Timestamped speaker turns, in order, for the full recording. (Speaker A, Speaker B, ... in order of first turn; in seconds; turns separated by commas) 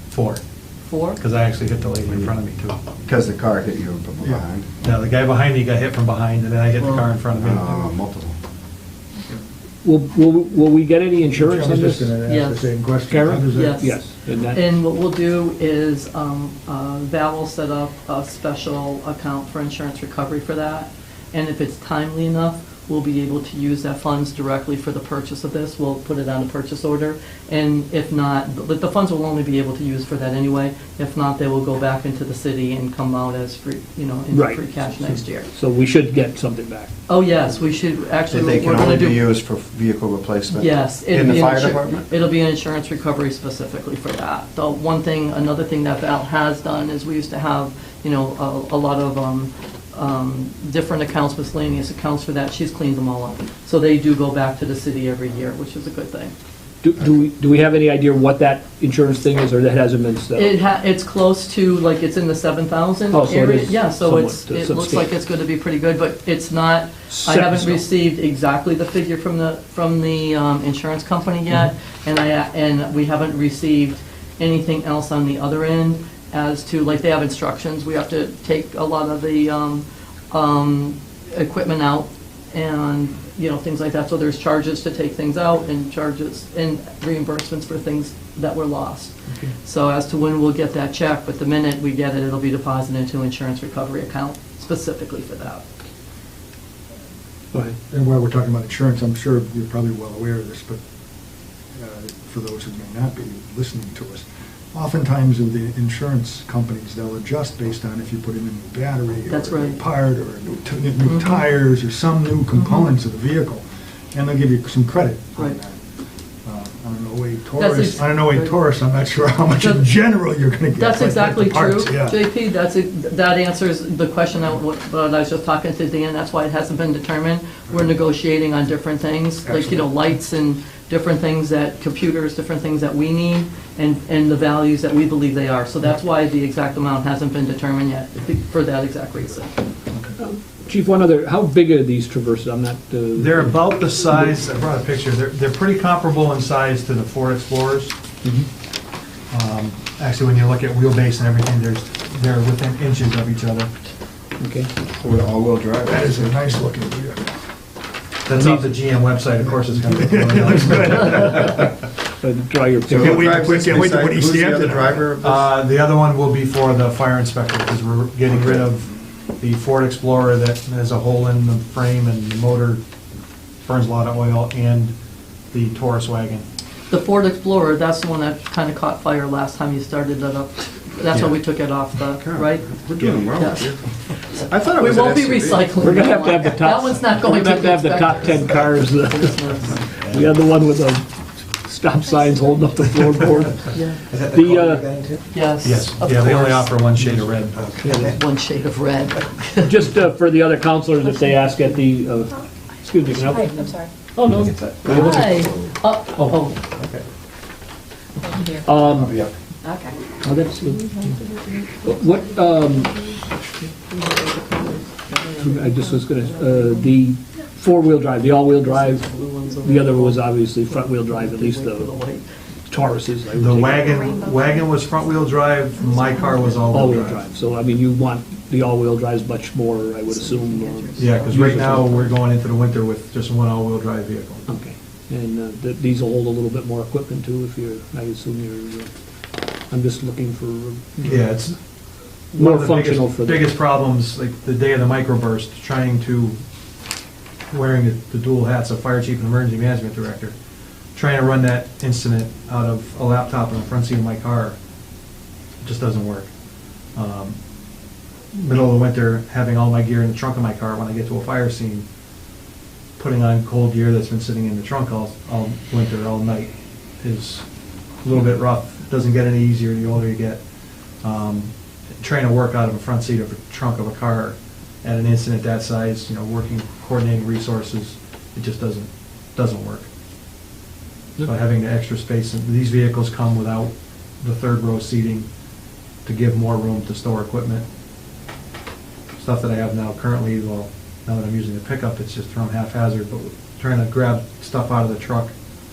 Speaker A: 0.1-0.4, Speaker B: 0.8-1.2, Speaker A: 1.2-2.8, Speaker C: 3.0-4.7, Speaker A: 4.8-7.9, Speaker C: 7.4-8.4, Speaker D: 9.8-12.1, Speaker E: 11.3-13.8, Speaker B: 12.2-12.8, Speaker D: 13.1-14.6, Speaker B: 13.5-35.5, Speaker D: 34.3-36.9, Speaker B: 37.1-39.3, Speaker C: 38.3-42.0, Speaker B: 40.5-56.3, Speaker D: 56.8-60.5, Speaker B: 60.3-95.7, Speaker D: 63.1-65.1, Speaker D: 67.1-67.8, Speaker E: 97.9-100.8, Speaker E: 101.7-115.8, Speaker B: 109.3-109.8, Speaker B: 111.0-111.5, Speaker B: 112.6-112.9, Speaker E: 116.4-122.3, Speaker B: 117.6-118.5, Speaker B: 119.6-119.9, Speaker B: 120.8-139.5, Speaker D: 140.2-144.3, Speaker A: 143.2-147.9, Speaker A: 149.3-153.7, Speaker D: 154.4-154.7, Speaker C: 154.9-156.5, Speaker E: 155.9-157.3, Speaker A: 158.3-161.6, Speaker D: 158.3-158.6, Speaker E: 159.7-161.7, Speaker D: 162.2-163.2, Speaker C: 162.9-165.5, Speaker E: 162.9-165.1, Speaker A: 165.2-172.8, Speaker C: 168.3-168.6, Speaker A: 173.6-174.9, Speaker A: 175.5-176.4, Speaker B: 176.9-182.7, Speaker C: 182.2-183.8, Speaker B: 183.2-183.8, Speaker B: 184.3-189.9, Speaker C: 184.4-185.7, Speaker D: 185.8-194.9, Speaker F: 192.0-193.3, Speaker B: 193.7-194.0, Speaker C: 194.1-195.2, Speaker B: 195.3-196.8, Speaker A: 195.6-197.8, Speaker D: 197.8-198.2, Speaker B: 197.9-199.8, Speaker D: 199.6-205.3, Speaker F: 201.1-201.7, Speaker F: 203.1-203.9, Speaker C: 204.4-205.7, Speaker B: 204.8-206.6, Speaker F: 208.2-208.8, Speaker D: 208.6-209.1, Speaker C: 209.0-209.3, Speaker F: 209.6-209.9, Speaker D: 210.2-211.2, Speaker F: 210.5-213.2, Speaker D: 211.8-212.9, Speaker B: 213.9-215.3, Speaker F: 215.1-216.8, Speaker D: 215.3-219.1, Speaker B: 216.3-216.8, Speaker B: 218.6-222.3, Speaker D: 219.6-222.0, Speaker D: 222.7-224.0, Speaker A: 223.4-227.2, Speaker F: 223.8-226.9, Speaker D: 226.7-232.0, Speaker B: 230.1-232.1, Speaker A: 231.0-234.5, Speaker D: 234.5-239.0, Speaker D: 239.7-241.5, Speaker A: 241.0-241.6, Speaker A: 242.3-246.4, Speaker D: 242.3-243.5, Speaker A: 247.5-250.3, Speaker A: 250.9-254.6, Speaker A: 255.6-256.3, Speaker A: 257.0-257.4, Speaker A: 258.4-261.9, Speaker A: 263.0-267.4, Speaker A: 268.0-270.4, Speaker A: 271.0-279.9, Speaker A: 281.2-285.3, Speaker A: 286.1-287.6, Speaker A: 289.2-295.3